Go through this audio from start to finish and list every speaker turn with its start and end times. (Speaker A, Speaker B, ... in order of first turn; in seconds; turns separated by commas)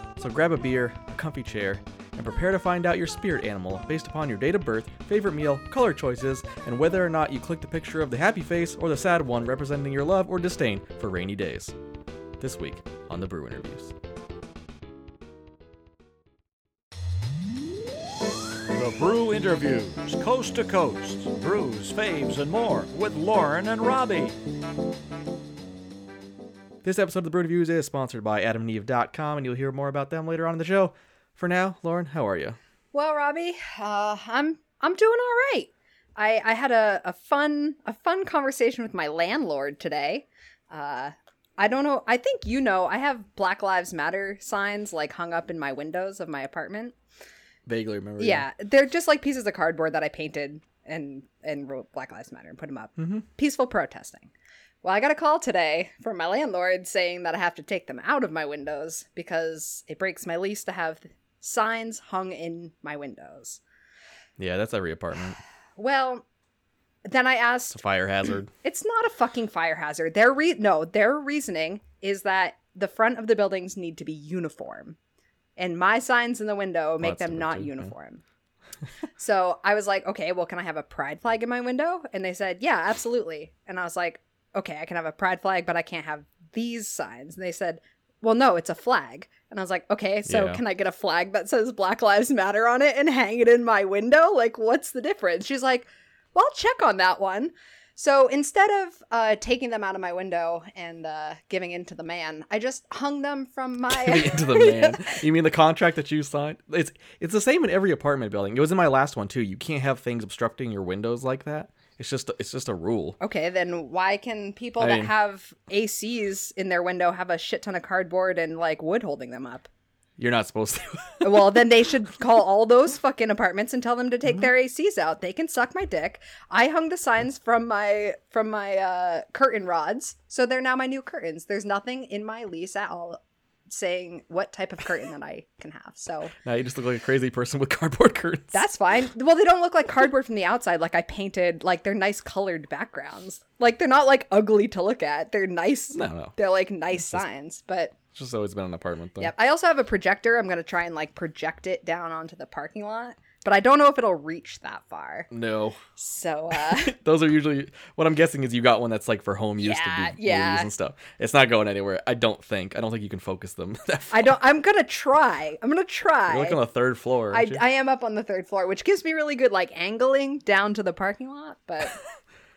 Speaker A: 0.2-11.8, Speaker A: 12.4-13.9, Speaker B: 18.7-24.3, Speaker A: 26.8-32.6, Speaker C: 32.9-47.0, Speaker A: 47.6-48.5, Speaker C: 48.2-54.3, Speaker A: 53.0-53.2, Speaker C: 54.8-63.6, Speaker A: 64.4-65.4, Speaker C: 65.8-66.2, Speaker C: 67.0-67.8, Speaker A: 67.7-68.5, Speaker C: 68.6-75.0, Speaker C: 75.6-78.2, Speaker A: 77.0-77.9, Speaker C: 79.2-105.2, Speaker A: 90.2-90.6, Speaker A: 103.9-113.2, Speaker C: 113.2-119.7, Speaker A: 114.8-115.1, Speaker A: 120.2-121.6, Speaker C: 121.2-136.3, Speaker A: 136.4-138.6, Speaker C: 138.5-147.9, Speaker A: 145.9-146.3, Speaker A: 146.9-147.2, Speaker A: 148.1-149.3, Speaker C: 149.2-155.3, Speaker A: 155.3-155.8, Speaker C: 155.9-156.9, Speaker A: 156.7-164.3, Speaker C: 159.6-160.7, Speaker C: 164.1-166.6, Speaker A: 166.3-167.6, Speaker C: 167.3-172.0